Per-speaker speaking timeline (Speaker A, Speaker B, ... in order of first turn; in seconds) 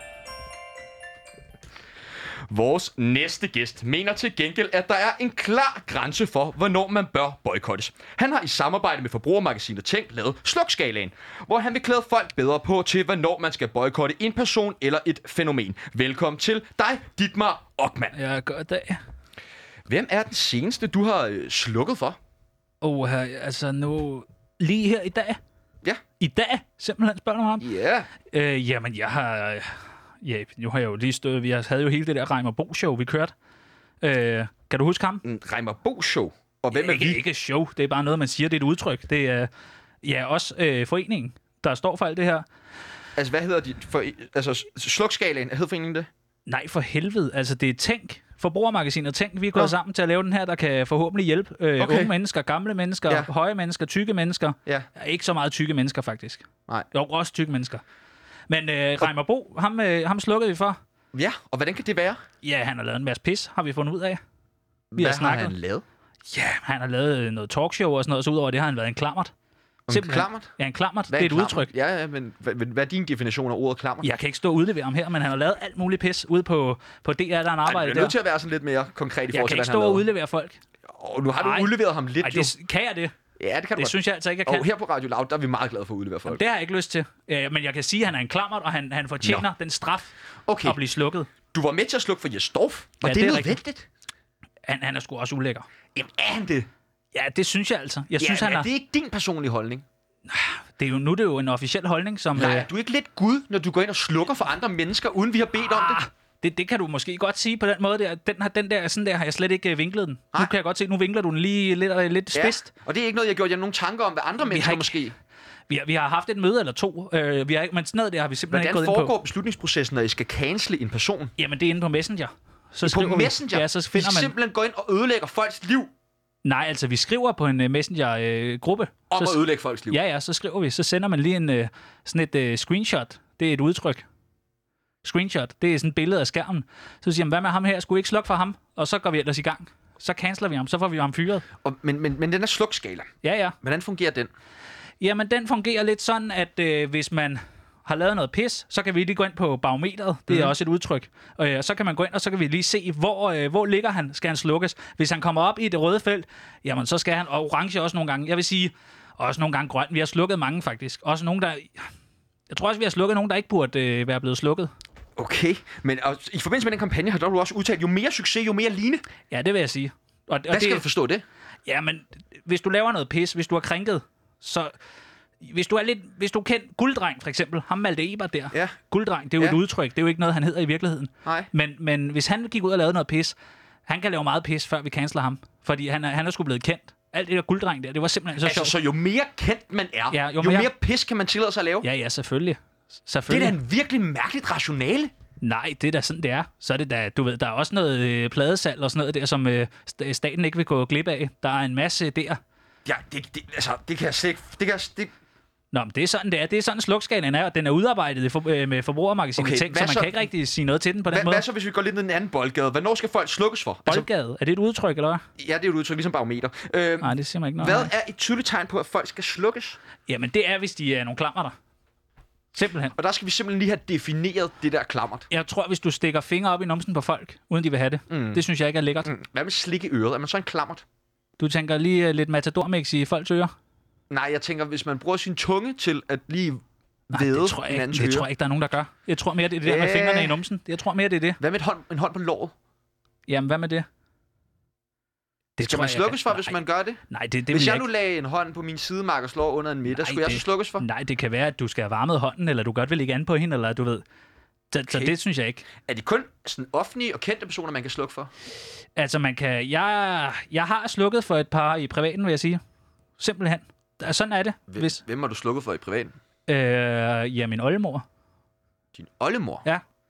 Speaker A: 2.5-18.1, 19.9-22.2, 27.6-28.1, 35.2-37.2, 43.2-46.1, 51.8-52.1, 61.1-62.2, 64.9-65.8, 69.9-70.5, 71.1-74.1, 77.7-80.0, 80.9-82.5, 83.4-86.4, 90.5-90.8, 91.5-93.9, 96.0-96.7, 98.2-99.8, 102.4-106.0, 112.3-115.1, 118.5-121.3, 122.9-125.9, 129.1-130.0, 141.6-144.3, 165.2-169.0, 170.5-171.2, 181.2-181.5, 188.4-191.9, 193.3-195.1, 202.9-205.1, 209.4-210.2, 211.1-214.1, 215.4-219.8, 222.9-225.3, 228.1-228.4, 229.0-230.8, 234.1-238.3, 239.7-240.4, 241.4-242.5, 245.6-250.9, 254.9-255.1, 255.8-258.3, 264.7-266.2, 269.0-269.6
Speaker B: 18.1-19.0, 22.8-25.4, 26.2-27.6, 28.3-33.3, 34.0-35.2, 36.7-39.5, 40.0-42.5, 46.5-57.8, 58.5-60.8, 62.4-64.2, 65.0-65.5, 66.3-69.3, 69.9-71.7, 74.0-78.1, 79.3-80.6, 81.4-83.1, 83.8-84.7, 86.3-91.3, 93.0-93.6, 94.7-95.7, 97.1-98.7, 100.3-102.7, 105.6-112.7, 114.4-115.0, 115.7-119.1, 121.4-124.3, 126.5-134.1, 135.0-141.4, 143.2-143.6, 145.0-161.9, 162.5-164.7, 169.3-170.8, 171.7-174.7, 175.4-183.3, 183.9-188.7, 190.1-190.7, 191.8-193.6, 195.4-202.4, 205.7-211.4, 213.9-215.2, 217.0-217.9, 220.1-221.5, 222.5-222.9, 225.3-229.1, 231.4-233.5, 237.1-241.4, 243.3-243.9, 245.6-246.5, 247.1-247.9, 249.9-254.0, 254.7-255.7, 259.0-262.6, 263.2-265.0, 266.5-268.0